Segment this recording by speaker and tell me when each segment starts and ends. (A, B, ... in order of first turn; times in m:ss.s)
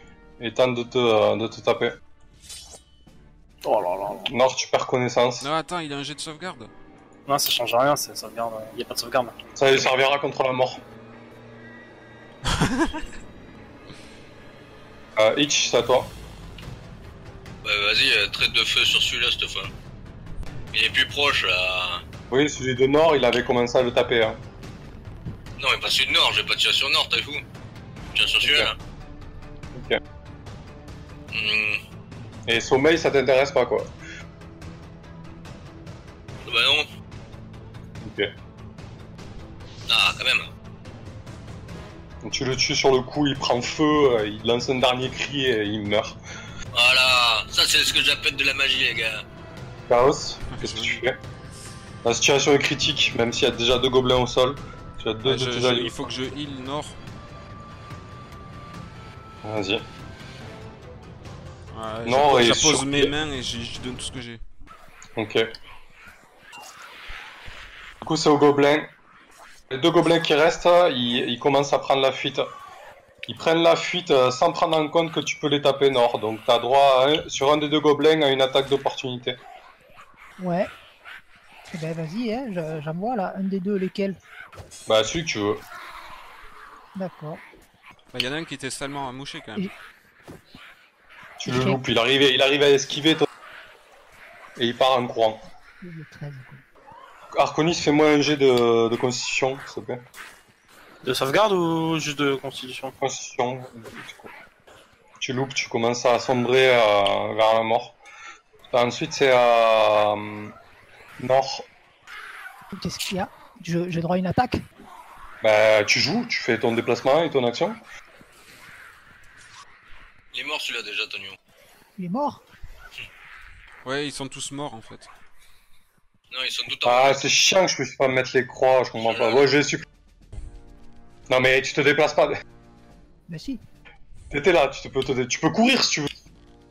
0:00.4-0:02.0 A
0:03.6-0:04.3 B
0:04.2-0:05.5 A
0:05.4-0:06.7 C
0:07.3-0:09.3 B
0:09.6-0:10.8 A
0:12.5-0:13.0 C
0:15.2-0:16.1 A
0:17.6-0:19.7 D
0:20.7-0:22.0 D
0:22.3-0:24.4 A
0:25.6-0:27.4 D
0:28.1-0:28.8 D
0:28.4-0:28.7 A
0:29.7-0:30.0 A
0:31.3-0:31.8 D
0:32.4-0:33.9 A
0:36.4-0:36.9 D
0:38.0-0:38.3 A
0:39.9-0:40.5 D
0:42.2-0:46.2 A
0:46.7-0:49.2 D
0:49.9-0:51.2 A
0:50.5-0:51.0 C
0:52.0-0:56.0 A
0:55.2-0:57.0 C
0:59.4-0:59.8 A
1:01.7-1:04.4 C
1:02.0-1:03.1 A
1:05.2-1:05.4 A
1:08.0-1:08.9 A
1:09.7-1:12.5 A
1:13.2-1:19.4 A
1:20.4-1:20.7 E
1:21.7-1:24.2 E
1:24.9-1:25.6 A
1:26.9-1:27.4 E
1:28.1-1:29.7 C
1:31.4-1:33.3 A
1:31.4-1:31.8 E
1:34.6-1:35.4 A
1:35.8-1:36.6 E
1:37.3-1:40.0 A
1:41.0-1:43.0 B
1:43.0-1:44.3 A
1:45.2-1:48.0 A
1:48.7-1:50.5 A
1:51.2-1:51.7 A
1:52.7-1:54.6 E
1:55.4-1:57.8 A
2:00.3-2:01.4 D
2:02.0-2:02.4 E
2:03.8-2:05.1 C
2:06.3-2:07.3 D
2:06.8-2:09.8 A
2:09.0-2:09.5 D
2:11.3-2:12.4 A
2:13.3-2:13.6 E
2:14.3-2:16.1 A